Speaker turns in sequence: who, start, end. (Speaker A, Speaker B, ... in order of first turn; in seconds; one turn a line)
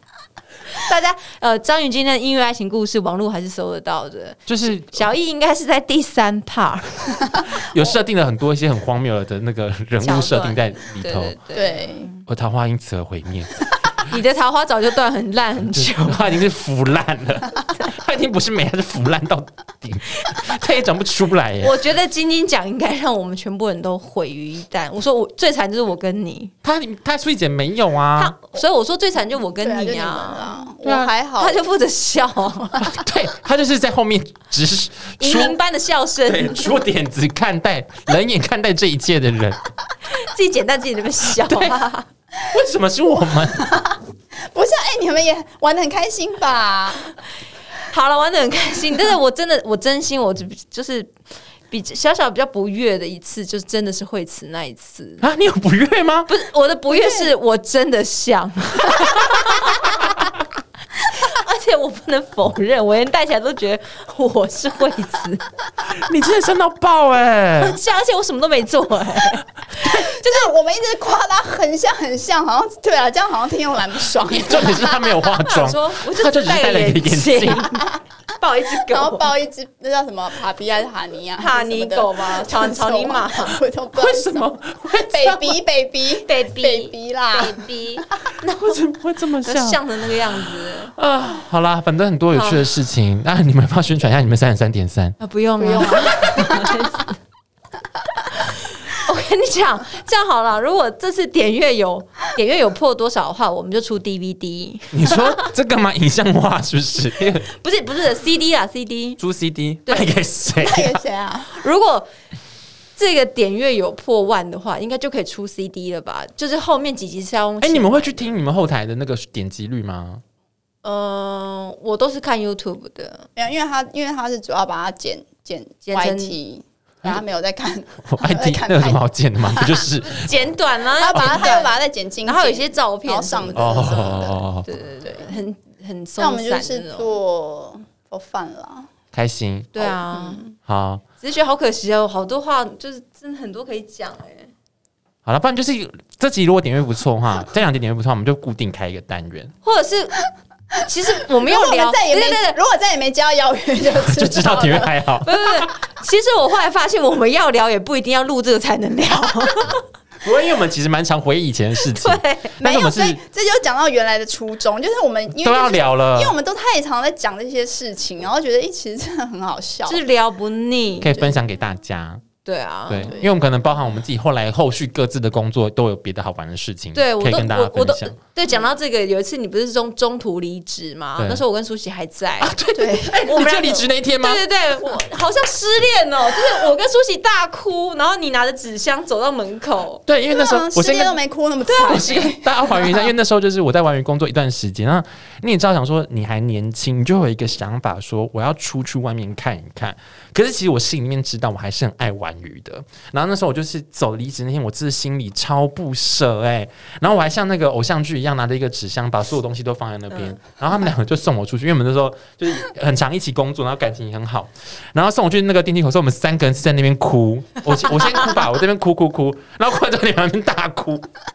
Speaker A: 0.7-7.4
Speaker B: 4.5-5.0
Speaker B: 7.6-11.4
Speaker A: 10.0-12.2
Speaker C: 11.5-12.1
Speaker B: 12.3-13.6
Speaker A: 14.1-16.3
Speaker B: 15.7-21.7
Speaker A: 21.6-26.5
Speaker B: 26.6-28.3
Speaker A: 28.1-30.7
Speaker C: 29.6-31.6
Speaker B: 30.8-31.1
Speaker A: 31.4-32.9
Speaker B: 32.8-35.6
Speaker A: 35.2-36.8
Speaker B: 36.3-39.6
Speaker A: 40.1-42.1
Speaker B: 41.5-41.8
Speaker B: 42.5-43.7
Speaker C: 43.6-44.0
Speaker C: 44.5-47.1
Speaker A: 47.8-51.1
Speaker A: 51.7-55.2
Speaker B: 55.2-56.3
Speaker A: 56.3-60.1
Speaker C: 56.9-57.3
Speaker A: 61.1-65.5
Speaker B: 65.9-67.8
Speaker A: 67.6-70.5
Speaker C: 69.8-75.1
Speaker B: 74.2-77.7
Speaker A: 75.2-77.9
Speaker C: 77.7-78.0
Speaker A: 78.4-79.3
Speaker C: 78.8-84.4
Speaker A: 81.4-83.6
Speaker B: 83.9-85.6
Speaker C: 84.9-87.7
Speaker A: 86.2-88.8
Speaker B: 88.6-89.8
Speaker A: 89.4-90.9
Speaker B: 90.9-95.2
Speaker A: 92.3-92.7
Speaker A: 95.2-97.2
Speaker C: 95.6-96.7
Speaker A: 98.3-105.5
Speaker B: 104.9-107.4
Speaker A: 107.4-109.2
Speaker B: 109.2-111.0
Speaker C: 110.5-111.5
Speaker A: 111.5-112.1
Speaker A: 113.0-118.4
Speaker B: 117.6-120.2
Speaker A: 120.8-123.3
Speaker C: 123.3-129.9
Speaker A: 125.8-126.3
Speaker B: 128.1-130.5
Speaker A: 130.0-137.2
Speaker C: 131.0-134.4
Speaker B: 133.5-134.7
Speaker C: 135.0-135.3
Speaker C: 136.2-138.9
Speaker B: 139.1-139.8
Speaker A: 139.7-140.4
Speaker C: 139.8-140.6
Speaker B: 140.6-141.0
Speaker A: 141.2-144.5
Speaker B: 145.2-149.5
Speaker A: 149.6-150.2
Speaker A: 150.8-152.6
Speaker C: 151.2-155.0
Speaker B: 154.0-155.7
Speaker A: 155.2-159.8
Speaker B: 160.2-163.2
Speaker A: 161.9-162.6
Speaker C: 162.6-170.0
Speaker B: 165.4-166.3
Speaker A: 169.8-171.3
Speaker B: 171.0-172.2
Speaker A: 172.4-173.2
Speaker B: 172.9-178.1
Speaker A: 176.9-190.0
Speaker B: 182.4-184.4
Speaker C: 182.8-183.7
Speaker B: 190.1-191.1
Speaker C: 190.3-192.9
Speaker A: 191.7-192.3
Speaker B: 191.8-221.1